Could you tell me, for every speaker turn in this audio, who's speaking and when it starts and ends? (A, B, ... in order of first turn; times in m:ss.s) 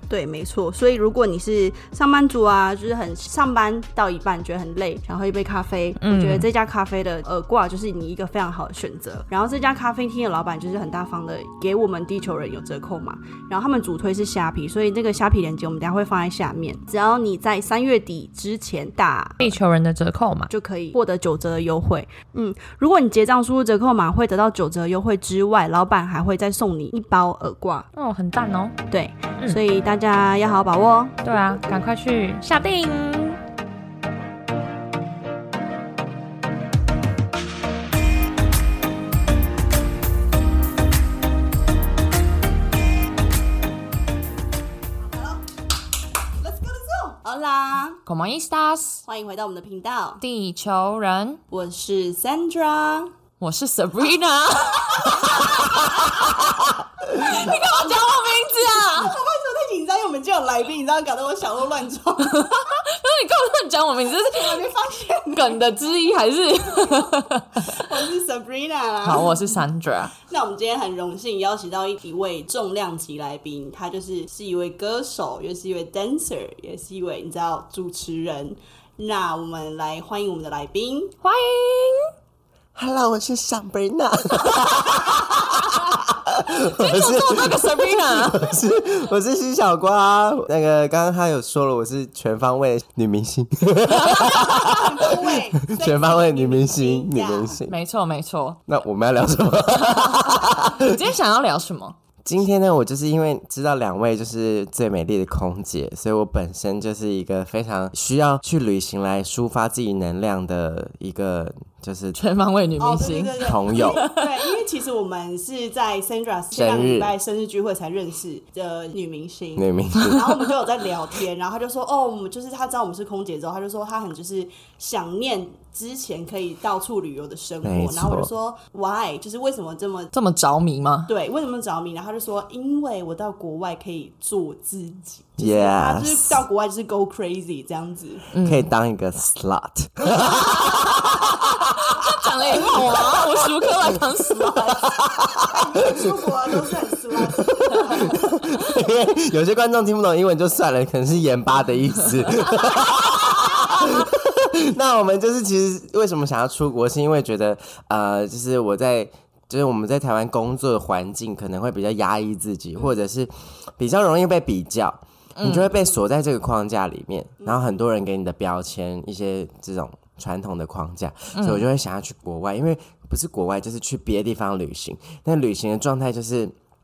0:00.1-0:19.5 A
0:06.0-0:06.5 B
0:19.4-0:20.5 B
0:20.5-0:27.9 A
0:27.9-0:28.7 B
0:28.9-0:31.4 A
0:31.2-0:33.4 B
0:46.4-0:48.0 A
0:48.0-0:49.0 B
0:49.0-0:50.2 A
0:50.2-0:51.4 B
0:51.5-0:53.1 A
0:53.4-0:56.5 B
0:54.9-0:56.5 A
0:57.1-1:02.8 A
0:57.1-0:59.1 B
1:02.3-1:04.7 B
1:04.1-1:05.6 A
1:05.3-1:07.8 B
1:06.8-1:07.1 A
1:07.6-1:09.6 A
1:09.0-1:10.1 B
1:10.2-1:21.1 A
1:21.2-1:22.1 B
1:22.7-1:37.8 C
1:26.6-1:28.5 B
1:34.0-1:37.6 A
1:37.7-1:38.6 B
1:38.7-1:41.0 C
1:39.9-1:42.0 B
1:42.2-1:52.2 C
1:52.2-1:54.3 B
1:52.8-2:10.1 A
1:53.4-1:54.0 C
1:56.5-1:57.1 C
1:59.6-2:00.3 C
2:07.6-2:08.3 C
2:10.1-2:11.1 B
2:11.1-2:18.2 A
2:15.4-2:16.4 C
2:18.3-2:18.7 B
2:18.4-2:24.0 C
2:21.9-2:25.0 B
2:24.7-2:26.8 C
2:25.2-2:28.2 A
2:27.4-2:56.5 C
2:45.4-2:45.7 B
2:47.4-2:47.7 A
2:51.3-2:51.6 B